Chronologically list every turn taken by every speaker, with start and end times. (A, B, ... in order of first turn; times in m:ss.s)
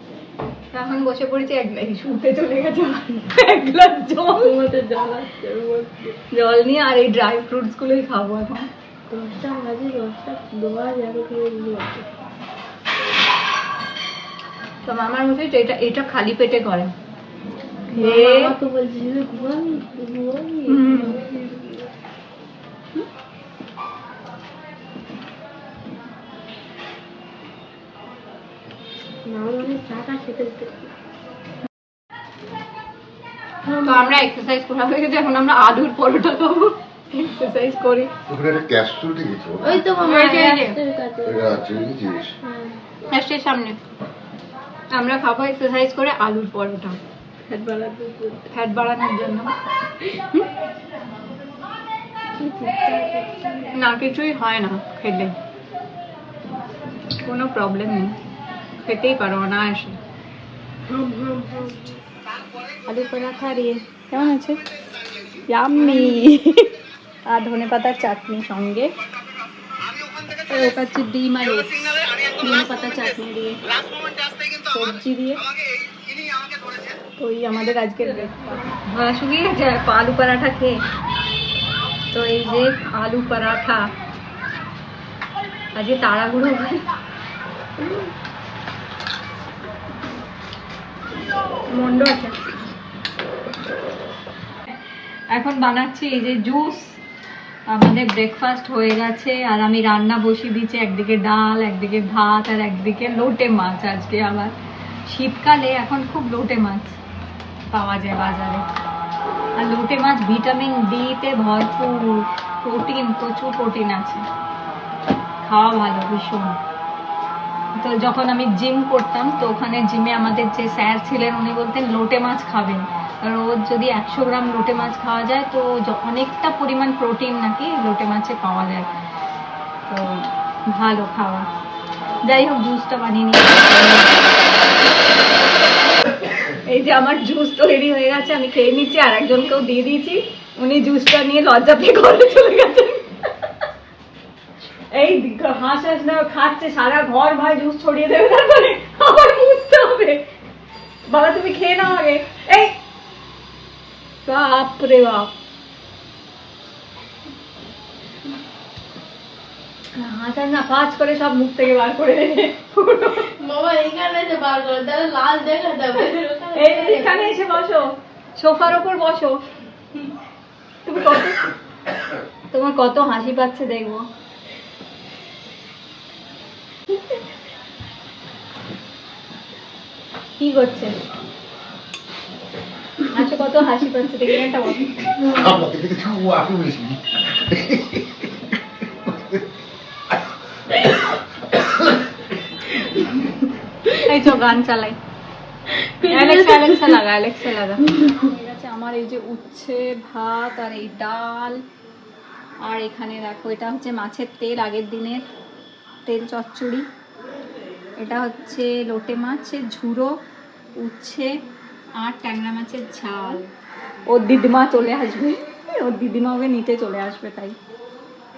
0:00.7-0:04.5 A
0:04.4-0:06.2 B
0:06.3-0:08.7 A
0:09.1-0:12.1 B
0:14.8-0:16.9 A
0:17.9-0:18.6 A
0:17.9-0:21.9 B
0:20.7-0:21.2 A
0:29.2-0:30.9 B
0:33.6-0:34.2 B
0:33.8-0:38.1 A
0:38.3-0:39.8 C
0:39.6-0:41.8 B
0:40.0-0:40.8 A
0:41.2-0:42.3 C
0:42.4-0:42.9 B
0:43.1-0:43.8 A
0:44.9-0:47.0 A
0:47.5-0:48.5 B
0:48.5-0:49.5 A
0:50.1-0:50.4 A
0:52.4-0:53.7 B
0:53.7-0:55.3 A
0:57.1-0:58.2 A
0:58.8-1:00.0 A
1:00.9-1:02.0 B
1:02.9-1:04.6 A
1:05.5-1:06.7 A
1:07.3-1:08.9 A
1:10.4-1:13.6 A
1:14.6-1:15.4 A
1:17.2-1:20.8 A
1:22.1-1:23.8 A
1:25.7-1:26.8 A
1:31.7-1:32.4 A
1:35.3-1:37.0 A
1:37.7-1:44.5 A
1:45.1-1:47.0 A
1:47.7-1:48.6 A
1:49.6-1:54.2 A
1:55.4-1:56.6 A
1:57.8-2:08.9 A
2:09.9-2:11.5 A
2:12.2-2:14.3 A
2:16.4-2:23.3 A
2:24.8-2:30.3 A
2:31.1-2:32.8 A
2:34.2-2:35.3 A
2:39.9-2:43.3 A
2:43.2-2:47.4 B
2:46.5-2:49.4 A
2:50.8-2:51.5 A
2:52.5-2:54.0 A
3:00.4-3:01.0 A
3:03.1-3:05.1 A
3:05.2-3:08.5 C
3:09.0-3:09.4 C
3:11.5-3:12.0 C
3:13.9-3:15.0 A
3:15.7-3:17.0 B
3:16.0-3:21.6 A
3:22.6-3:25.2 A
3:26.0-3:26.8 A
3:28.0-3:30.1 A
3:30.8-3:31.3 A
3:32.0-3:33.4 A
3:34.1-3:37.6 A